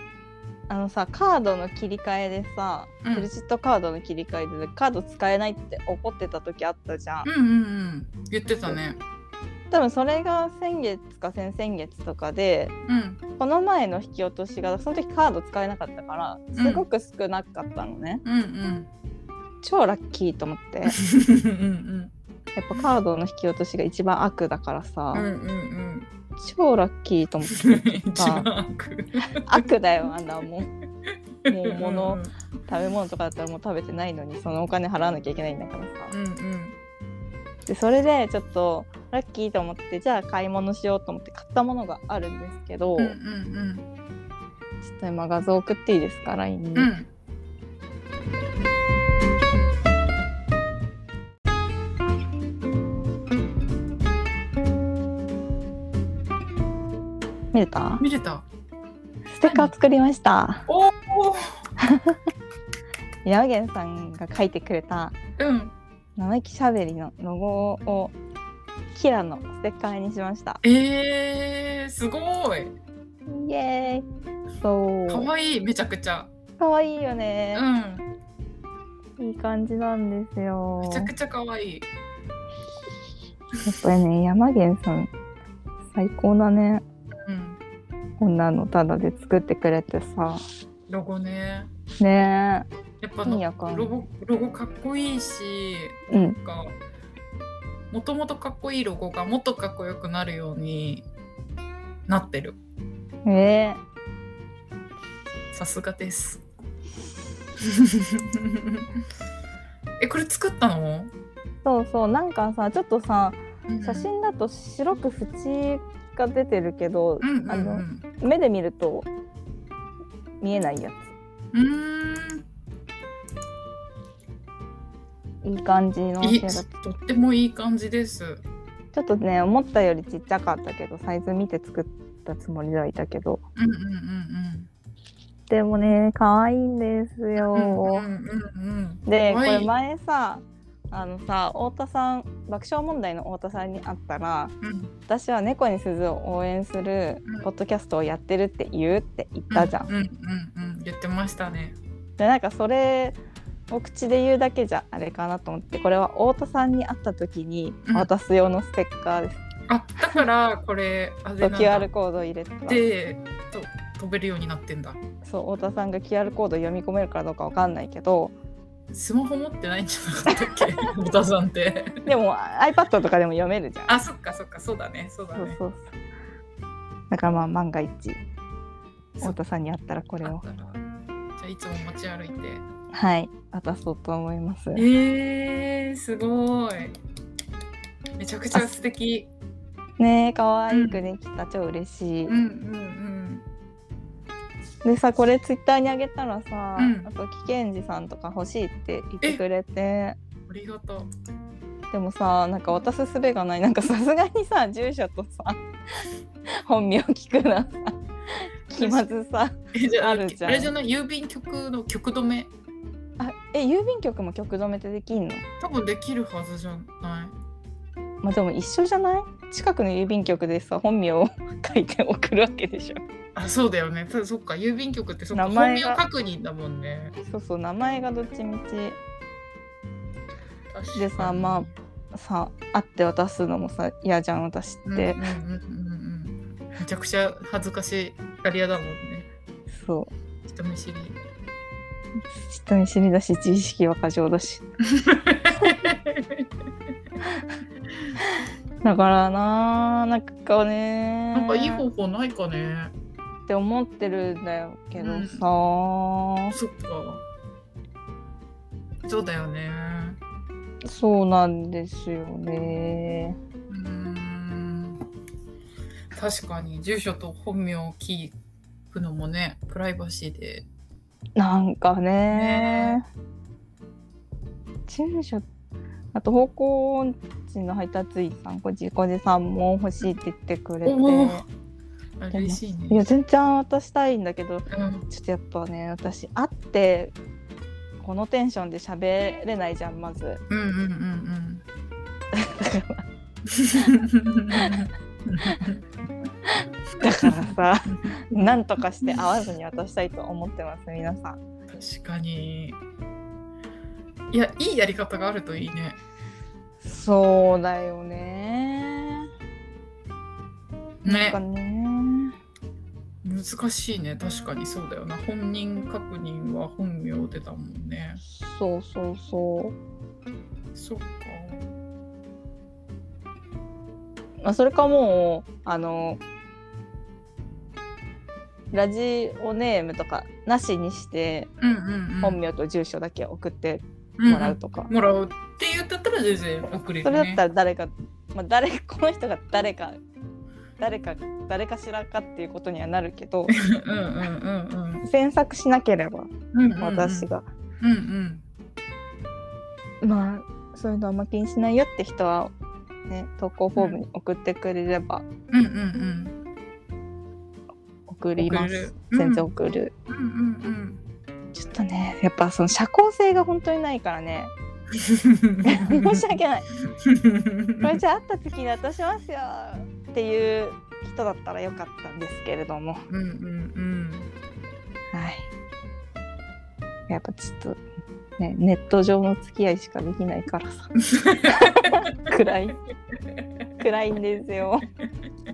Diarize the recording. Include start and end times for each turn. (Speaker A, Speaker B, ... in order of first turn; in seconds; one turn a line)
Speaker A: 0.7-7.3
Speaker B: 7.2-9.0
Speaker A: 9.7-12.7
Speaker B: 12.8-13.2
Speaker A: 13.4-18.2
Speaker B: 16.5-16.8
Speaker B: 18.2-18.9
Speaker A: 19.6-21.0
Speaker B: 20.9-22.1
Speaker A: 22.6-25.3
Speaker B: 25.1-26.1
Speaker A: 26.4-28.5
Speaker B: 27.5-29.6
Speaker A: 29.5-30.7
Speaker B: 31.4-32.3
Speaker A: 31.5-36.1
Speaker B: 36.1-36.8
Speaker A: 37.6-43.1
Speaker B: 43.0-43.9
Speaker A: 44.8-47.0
Speaker B: 46.8-47.1
Speaker A: 57.5-58.0
Speaker B: 58.0-58.4
Speaker A: 59.3-60.7
Speaker B: 59.5-59.7
Speaker B: 60.7-61.6
Speaker A: 61.8-62.2
Speaker A: 63.2-65.2
Speaker B: 65.4-65.7
Speaker A: 66.2-68.1
Speaker A: 68.9-70.6
Speaker B: 70.6-72.7
Speaker A: 73.3-74.0
Speaker A: 74.6-75.3
Speaker B: 75.1-76.3
Speaker A: 76.6-77.6
Speaker B: 77.5-78.0
Speaker A: 79.2-81.1
Speaker B: 80.8-81.9
Speaker A: 83.6-85.1
Speaker A: 85.9-86.8
Speaker B: 87.2-87.6
Speaker A: 88.2-90.4
Speaker B: 90.9-91.7
Speaker A: 92.0-92.7
Speaker B: 93.0-96.8
Speaker A: 93.2-94.1
Speaker A: 96.1-96.4
Speaker B: 97.9-101.0
Speaker B: 102.1-102.6
Speaker A: 103.2-103.8
Speaker B: 105.5-106.4
Speaker B: 107.6-108.8
Speaker B: 110.0-111.1
Speaker A: 111.6-119.1
Speaker B: 113.7-114.1
Speaker B: 117.2-118.0
Speaker A: 120.4-121.1
Speaker B: 121.5-122.4
Speaker A: 125.4-126.7
Speaker B: 126.2-128.4
Speaker A: 128.9-133.4
Speaker B: 133.6-134.7
Speaker A: 135.5-138.1
Speaker B: 137.4-139.7
Speaker A: 139.1-144.5
Speaker B: 144.6-144.9
Speaker A: 145.1-149.9
Speaker B: 149.5-151.8
Speaker A: 152.2-153.2
Speaker A: 153.7-159.4
Speaker B: 157.8-158.1
Speaker B: 159.7-161.9
Speaker A: 161.4-162.8
Speaker B: 162.7-165.0
Speaker A: 165.2-168.3
Speaker B: 168.9-172.0
Speaker A: 172.0-174.0
Speaker B: 173.9-175.6
Speaker A: 175.3-175.9
Speaker A: 177.1-178.2
Speaker A: 179.2-180.4
Speaker B: 180.2-180.8
Speaker B: 181.4-182.6
Speaker A: 182.9-184.8
Speaker B: 184.7-187.0
Speaker B: 188.2-189.3
Speaker A: 188.5-188.8
Speaker A: 190.0-192.3
Speaker B: 190.7-191.0
Speaker B: 192.3-193.4
Speaker A: 194.8-200.2
Speaker B: 196.8-197.1
Speaker B: 200.5-201.1
Speaker A: 201.9-206.0
Speaker A: 206.6-210.7
Speaker B: 208.8-209.1
Speaker B: 209.7-212.5
Speaker A: 213.2-215.4
Speaker B: 215.6-217.3
Speaker A: 218.2-223.0
Speaker B: 223.3-227.2
Speaker A: 225.3-226.0
Speaker A: 227.2-229.0
Speaker B: 230.7-231.7
Speaker A: 230.9-235.2
Speaker B: 234.8-239.3
Speaker A: 239.7-240.1
Speaker B: 240.4-241.2
Speaker A: 242.3-244.6
Speaker B: 244.9-246.4
Speaker A: 248.8-251.8
Speaker B: 251.3-252.9
Speaker A: 253.5-256.5
Speaker B: 255.0-255.4
Speaker B: 256.5-257.2
Speaker B: 259.1-260.2
Speaker A: 260.8-263.4
Speaker B: 263.7-265.0
Speaker B: 266.1-268.3
Speaker B: 268.9-270.6
Speaker A: 271.4-273.0
Speaker B: 272.3-273.0
Speaker A: 274.9-275.4
Speaker A: 276.1-281.4
Speaker B: 280.8-281.5
Speaker B: 282.2-283.1
Speaker A: 282.3-287.1
Speaker B: 284.7-285.1
Speaker A: 288.0-290.4
Speaker B: 290.5-291.6
Speaker A: 292.3-293.0
Speaker B: 293.5-295.8
Speaker A: 293.8-294.8
Speaker A: 296.5-301.4
Speaker B: 301.7-302.8
Speaker B: 304.3-306.0
Speaker A: 306.8-309.3
Speaker B: 311.0-311.4
Speaker A: 311.1-312.3
Speaker B: 313.2-318.2
Speaker A: 318.3-319.7
Speaker B: 320.7-321.7
Speaker A: 324.4-326.2
Speaker A: 328.7-331.5
Speaker B: 331.6-332.4
Speaker A: 332.2-334.9
Speaker B: 334.2-337.4
Speaker A: 337.0-340.0
Speaker A: 340.8-343.5
Speaker B: 343.5-345.0
Speaker A: 345.0-347.4
Speaker B: 346.5-347.3
Speaker B: 347.8-348.4
Speaker A: 350.0-352.5
Speaker A: 353.1-355.2
Speaker B: 353.8-354.0
Speaker B: 355.5-356.4
Speaker A: 358.1-359.9
Speaker B: 358.4-359.5
Speaker B: 360.1-361.0
Speaker A: 361.5-364.5
Speaker B: 364.9-366.2
Speaker A: 365.6-366.7
Speaker B: 367.0-368.0
Speaker A: 367.8-373.0
Speaker B: 373.1-374.3
Speaker A: 375.1-375.5
Speaker A: 377.1-377.8
Speaker A: 378.4-382.8
Speaker B: 381.2-381.5
Speaker A: 383.8-384.9